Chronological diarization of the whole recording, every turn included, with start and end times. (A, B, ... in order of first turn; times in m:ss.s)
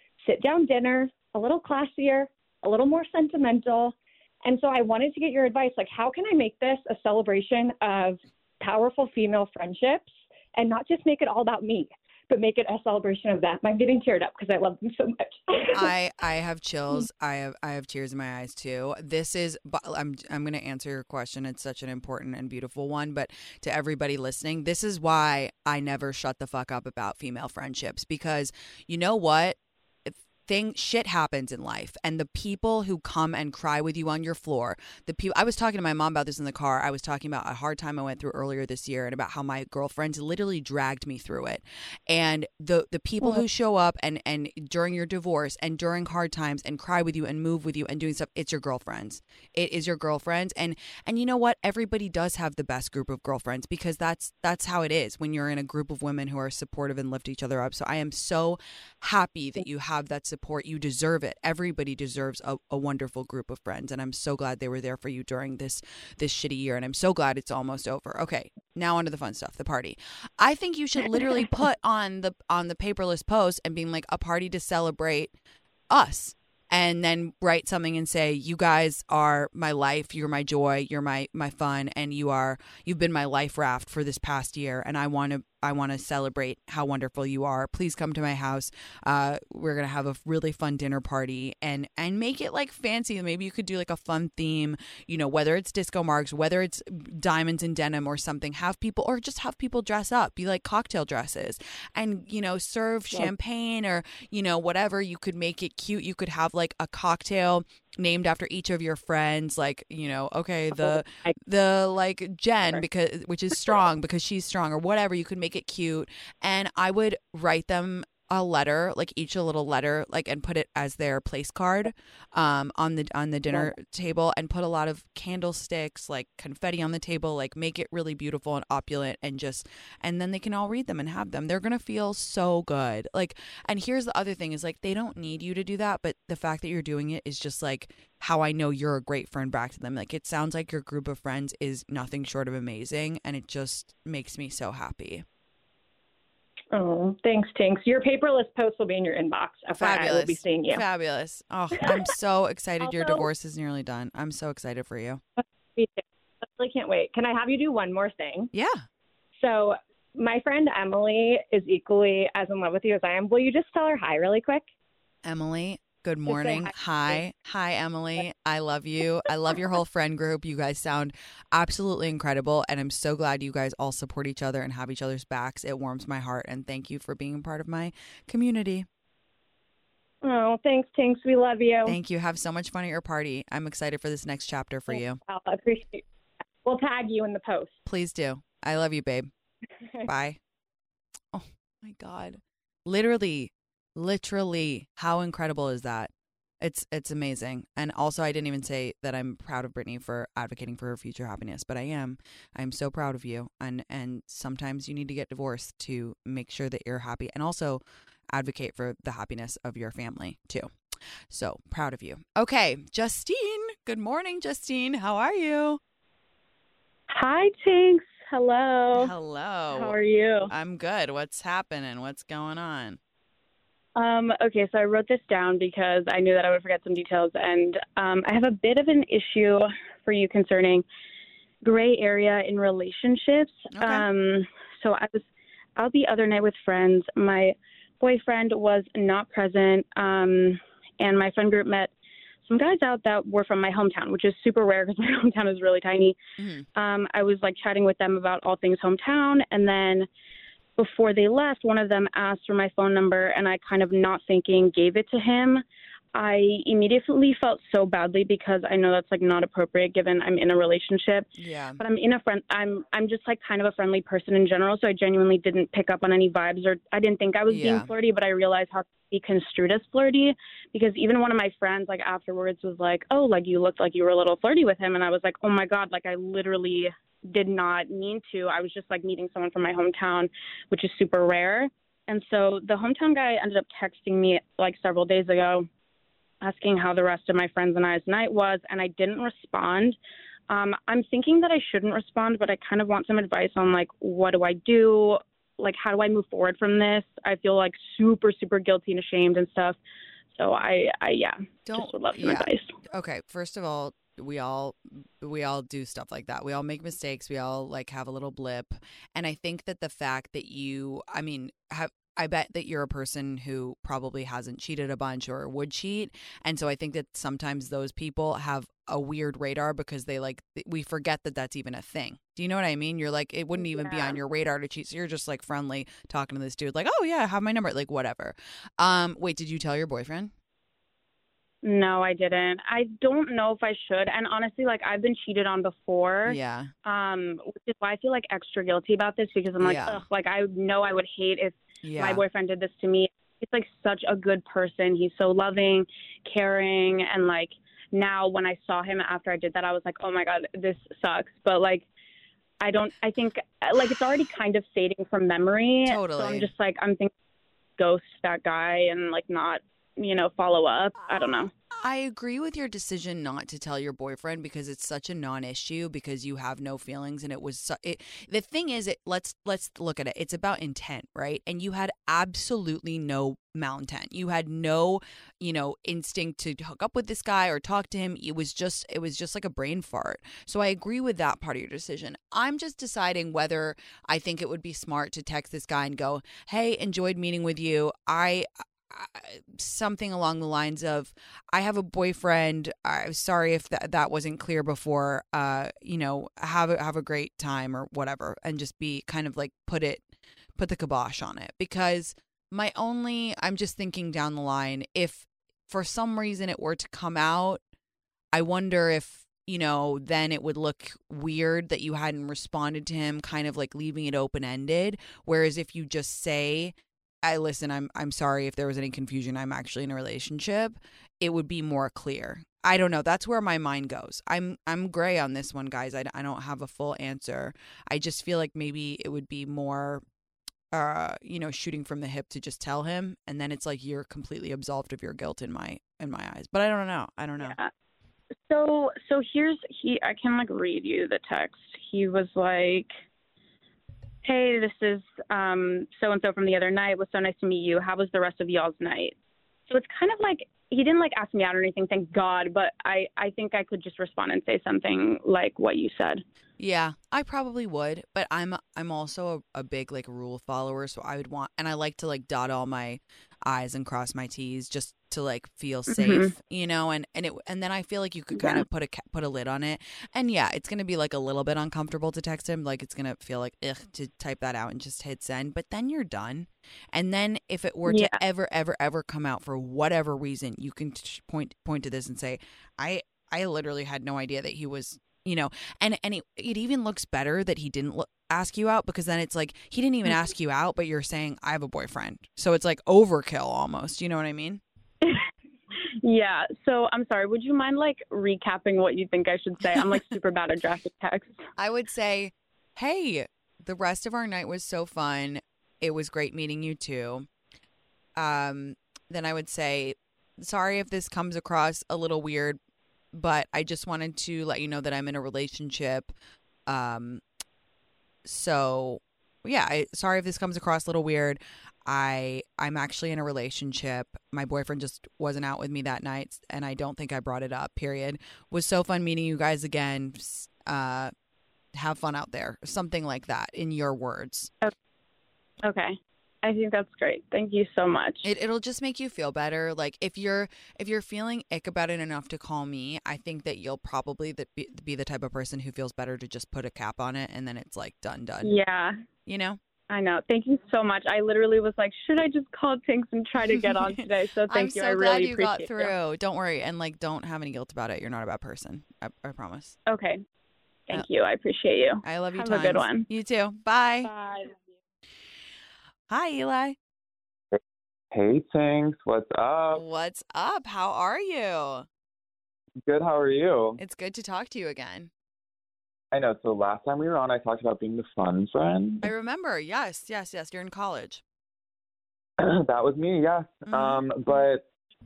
0:00.2-0:15.9 A
0:15.7-1:15.3 B
1:15.9-2:25.2 B
2:26.7-2:30.8 A
2:29.7-2:35.2 B
2:32.8-2:33.3 A
2:35.4-2:38.5 A
2:38.5-2:38.8 B
2:39.4-2:44.6 A
2:45.2-2:58.9 B
2:46.3-2:47.2 A
3:00.2-3:02.0 A
3:01.8-3:05.2 B
3:04.9-3:06.0 A
3:06.6-3:07.8 A
3:07.8-3:09.3 B
3:10.0-3:10.4 B
3:11.3-3:30.7 B
3:31.3-3:35.8 B
3:37.1-3:39.1 C
3:38.9-3:39.9 B
3:39.7-3:40.5 C
3:40.5-3:43.0 B
3:44.0-3:50.8 C
3:51.6-3:55.2 C
3:53.7-3:54.0 B
3:55.8-4:01.9 C
4:02.4-4:06.2 C
4:06.4-4:06.7 B
4:06.8-4:10.1 C
4:10.8-4:21.3 C
4:21.4-4:21.8 B
4:21.8-4:45.7 C
4:27.5-4:27.9 B
4:46.4-4:50.0 C
4:50.5-4:59.8 C
5:00.3-5:02.7 C
5:01.7-5:30.3 B
5:23.6-5:24.2 C
5:31.6-5:51.8 C
5:36.2-5:36.7 B
5:39.6-5:40.0 B
5:41.8-5:42.2 B
5:52.6-5:57.1 C
5:55.8-5:56.5 B
5:57.8-6:01.5 C
6:01.0-6:40.0 B
6:40.6-6:47.6 B
6:48.3-7:10.0 B
7:10.7-7:17.6 B
7:17.4-7:17.7 C
7:18.5-7:22.9 C
7:24.2-7:29.1 C
7:29.7-7:36.2 C
7:36.6-8:14.6 B
7:45.9-7:46.3 C
7:48.3-7:48.6 C
7:57.8-7:58.2 C
8:16.0-8:21.4 C
8:21.6-8:27.3 B
8:28.2-8:32.6 B
8:33.1-8:36.1 B
8:36.7-8:37.2 B
8:38.2-8:51.1 B
8:51.7-8:54.5 B
8:55.6-8:58.2 C
8:58.2-9:08.6 B
9:08.4-9:08.9 C
9:09.2-9:09.6 B
9:09.9-9:15.9 C
9:13.4-9:19.8 B
9:19.9-9:20.2 C
9:20.9-9:23.1 C
9:22.0-9:24.1 B
9:24.0-9:24.6 C
9:26.1-9:26.8 B
9:28.1-9:29.8 D
9:29.7-9:31.8 B
9:32.8-9:33.8 D
9:33.8-9:35.1 B
9:36.1-9:39.1 D
9:39.0-9:41.2 B
9:42.4-9:44.6 D
9:43.7-9:44.0 B